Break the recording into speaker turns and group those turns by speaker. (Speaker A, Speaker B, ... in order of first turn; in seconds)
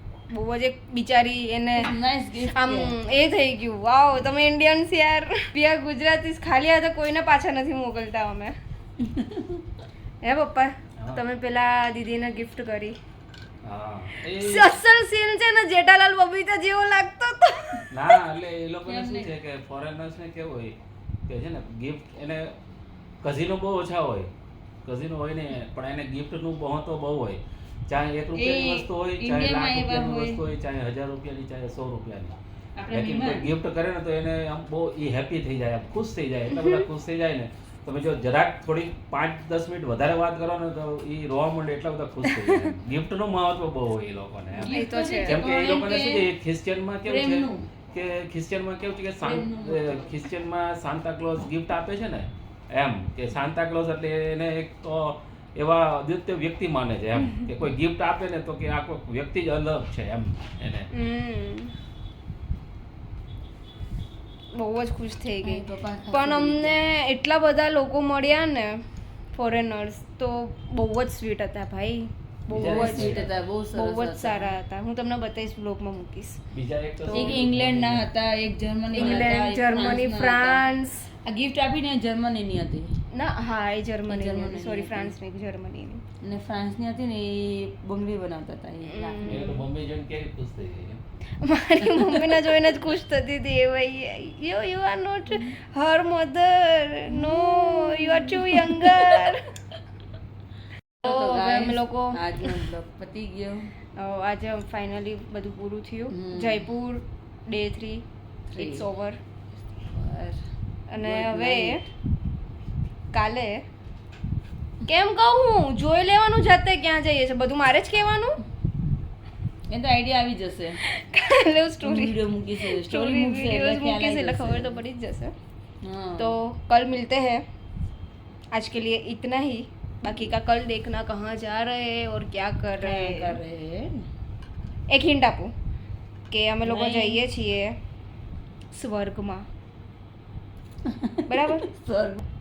Speaker A: 0.3-8.5, 10.2-13.0, 14.3-17.9, 36.5-36.8, 42.3-42.7, 44.6-45.5, 60.9-61.7, 64.5-68.8, 69.3-76.4, 77.1-77.4, 78.9-81.1, 83.1-86.0, 88.8-89.5, 91.4-99.5, 101.0-102.6, 104.0-108.0, 108.6-109.2, 110.9-111.8, 113.1-113.6, 114.9-118.4, 120.8-125.3, 126.2-127.4, 128.5-133.4, 134.9-135.5, 136.3-137.8, 138.7-139.4, 141.3-141.7
Speaker B: 1.8-3.0, 9.1-9.5, 18.9-19.4, 28.4-30.4, 32.8-33.5, 44.6-46.3, 47.0-47.6, 49.2-50.2, 65.4-66.8, 72.6-74.5, 77.1-80.7, 81.2-82.9, 84.1-85.2, 86.2-89.5, 97.1-99.2, 101.0-103.7, 106.1-106.7, 108.5-108.9, 109.9-110.4, 111.0-111.8, 119.7-120.8, 121.8-124.8, 125.8-126.4, 132.8-134.1, 136.6-137.2, 141.1-142.2
Speaker C: 13.6-14.7, 17.9-20.8, 21.3-22.5, 23.2-24.3, 24.9-32.4, 32.9-60.9, 72.5-73.3, 76.5-78.1, 89.2-91.0